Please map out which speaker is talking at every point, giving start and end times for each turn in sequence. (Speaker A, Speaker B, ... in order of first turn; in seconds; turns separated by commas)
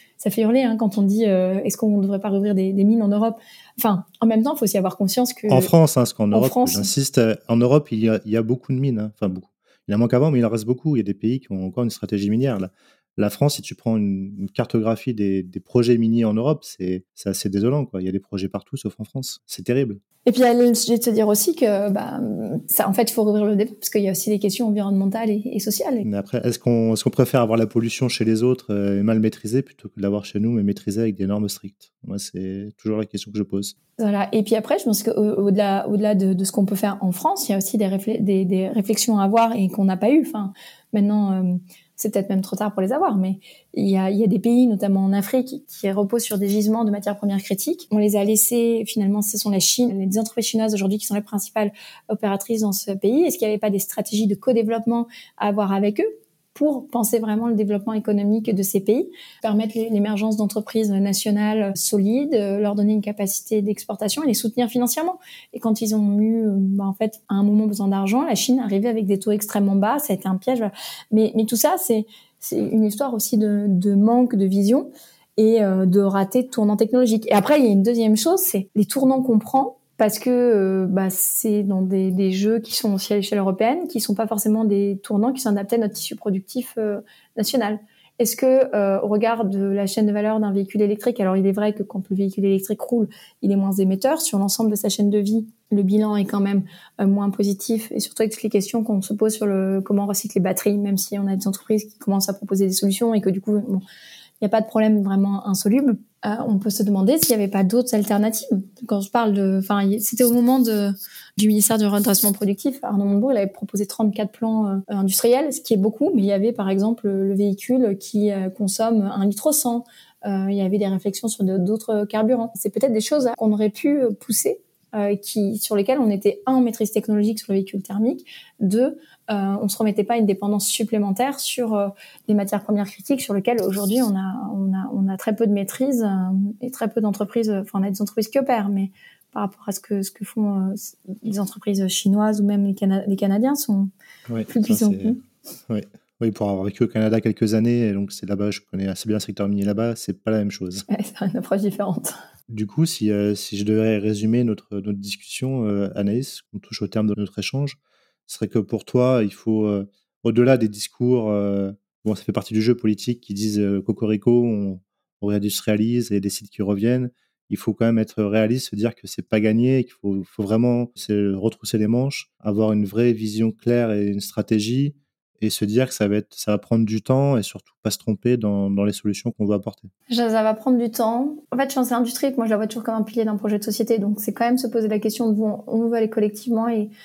Speaker A: 0.2-5.7, Speaker B: 5.5-20.0, Speaker A: 6.3-6.9, Speaker A: 20.3-26.1, Speaker B: 26.1-33.8, Speaker A: 34.0-103.8, Speaker A: 104.4-143.9, Speaker B: 144.3-145.2, Speaker A: 144.5-145.2, Speaker B: 145.7-150.8, Speaker A: 150.9-152.2, Speaker B: 152.5-179.9, Speaker A: 180.1-186.9